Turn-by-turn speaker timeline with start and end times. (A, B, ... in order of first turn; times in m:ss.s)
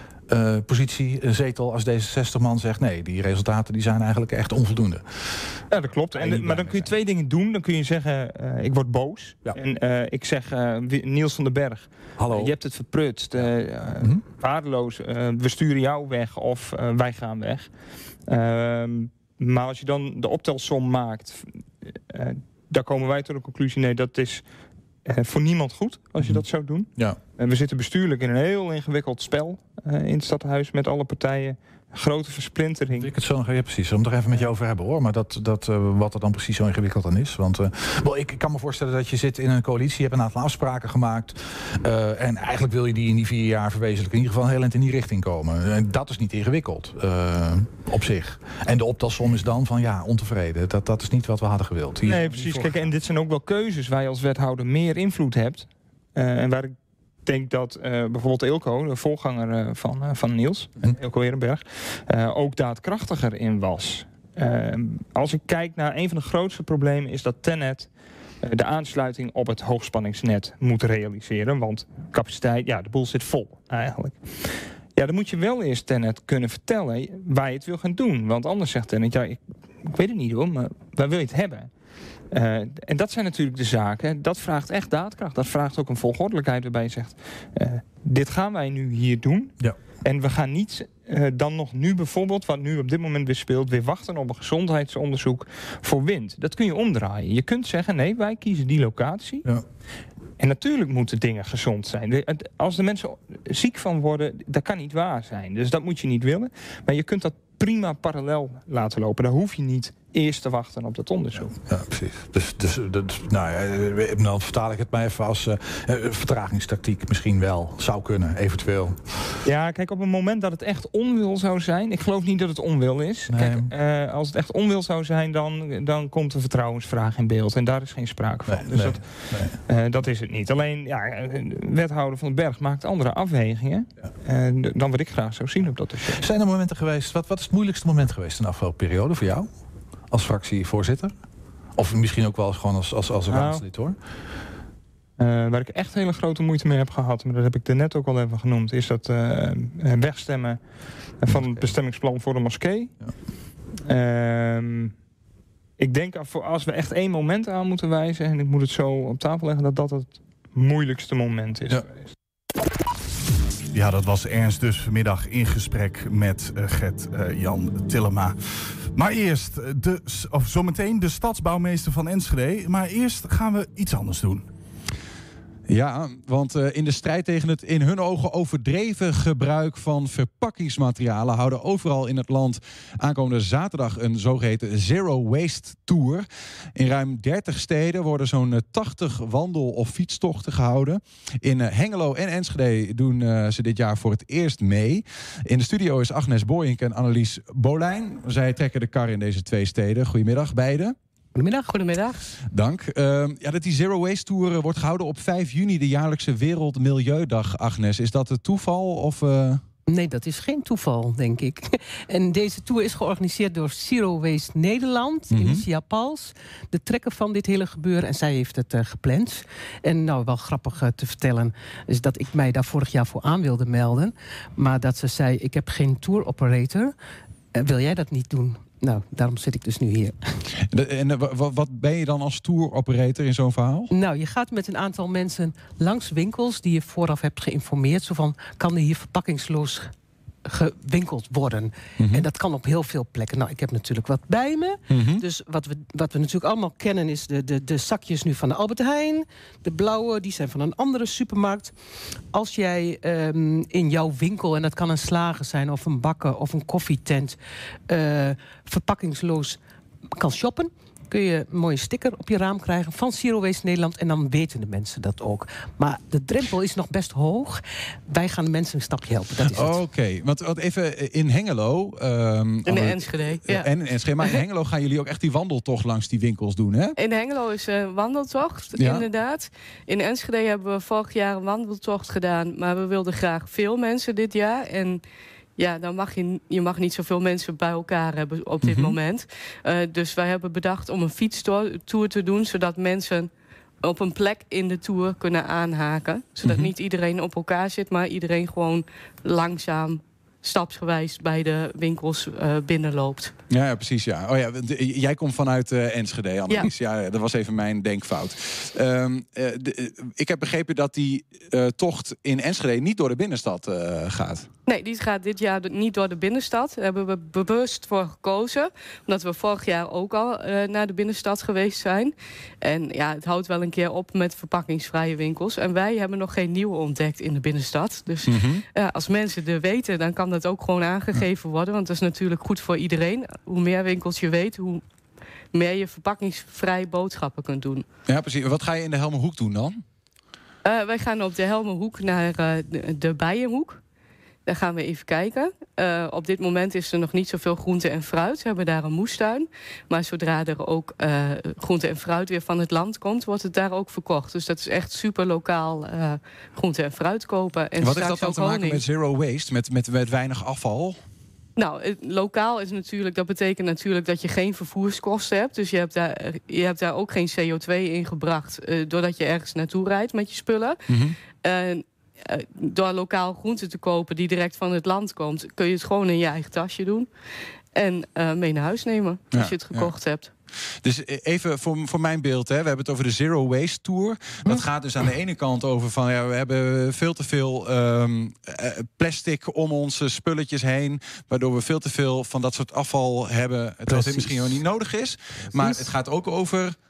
0:00.3-0:05.6 A
0:05.7-0:17.7 B
0:06.1-0:06.9 A
0:12.2-0:12.5 A
0:13.3-0:14.2 A
0:18.2-0:24.4 B
0:25.0-0:33.1 B
0:33.0-0:52.9 A
0:52.0-1:21.7 B
1:22.3-1:39.4 B
1:40.4-1:51.6 B
1:51.6-1:59.2 A
1:59.4-2:16.2 B
2:03.3-2:03.7 A
2:08.4-2:09.6 A
2:16.1-2:19.5 A
2:20.1-2:21.1 A
2:21.8-2:24.0 A
2:23.3-2:23.6 B
2:25.2-2:33.0 B
2:31.3-2:31.8 A
2:33.8-2:34.9 B
2:35.8-2:42.1 B
2:43.7-2:48.3 C
2:48.9-2:54.4 C
2:55.7-3:21.0 D
3:21.3-3:21.8 E
3:21.7-3:22.2 F
3:22.5-3:29.6 D
3:29.9-3:46.9 E
3:35.3-3:35.6 D
3:47.5-3:50.4 E
3:50.7-3:53.9 D
3:53.9-3:59.9 E
4:00.4-4:17.4 E
4:02.0-4:02.2 D
4:04.9-4:05.2 D
4:17.9-4:19.6 E
4:20.2-4:29.8 E
4:29.5-4:36.9 D
4:32.6-4:33.7 F
4:37.0-4:45.0 F
4:38.8-4:39.0 D
4:45.6-4:53.3 F
4:48.6-4:49.0 D
4:53.8-5:03.3 F
4:56.4-4:56.7 D
5:03.5-5:14.5 D
5:14.7-5:34.8 F
5:28.2-5:28.6 D
5:35.5-5:37.8 F
5:38.1-5:39.8 D
5:40.6-5:43.8 F
5:44.4-5:58.8 F
5:57.8-6:01.0 D
6:01.6-6:10.8 F
6:10.9-6:11.2 D
6:11.4-6:17.1 F
6:17.7-6:20.3 F
6:19.3-6:19.9 D
6:20.8-6:36.8 D
6:35.6-6:35.9 E